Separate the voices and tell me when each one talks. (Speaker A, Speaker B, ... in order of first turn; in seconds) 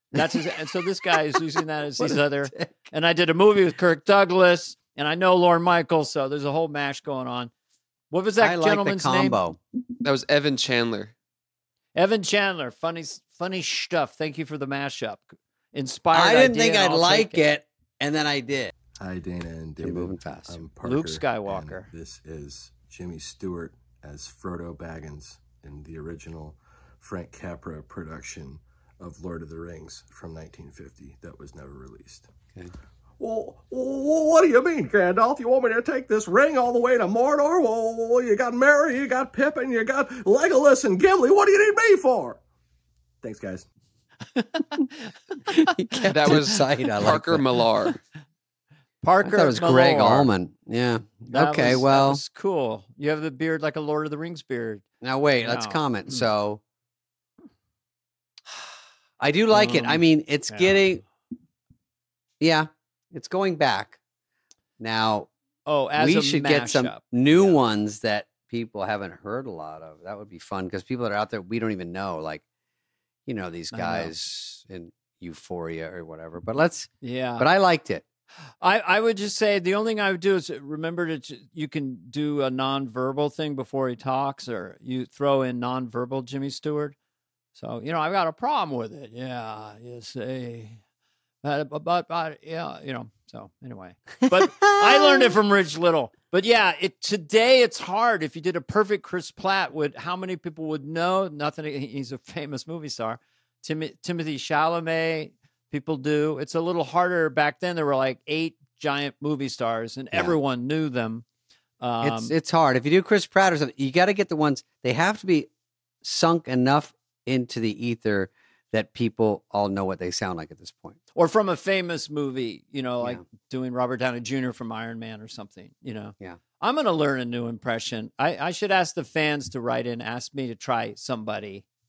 Speaker A: 0.1-7.5, 8.1-9.4, 11.9-17.4, 20.8-21.9, 49.0-50.3, 51.3-54.9, 55.4-56.3, 59.5-60.9, 65.7-67.6, 73.7-74.1, 77.0-77.5, 78.6-87.0, 87.5-90.8, 91.4-111.2, 111.8-112.3, 121.2-131.7
Speaker B: 0.2-0.5, 2.0-2.8, 8.4-9.6, 16.1-18.7, 19.8-20.6, 45.5-47.5, 49.2-52.2, 55.0-56.6, 59.2-61.0, 62.4-64.0, 64.8-65.3, 66.0-72.4, 73.3-78.0, 112.0-115.5, 116.0-121.0
Speaker C: 10.0-11.1, 46.1-48.0
Speaker D: 19.0-32.3, 33.2-42.4, 43.2-43.7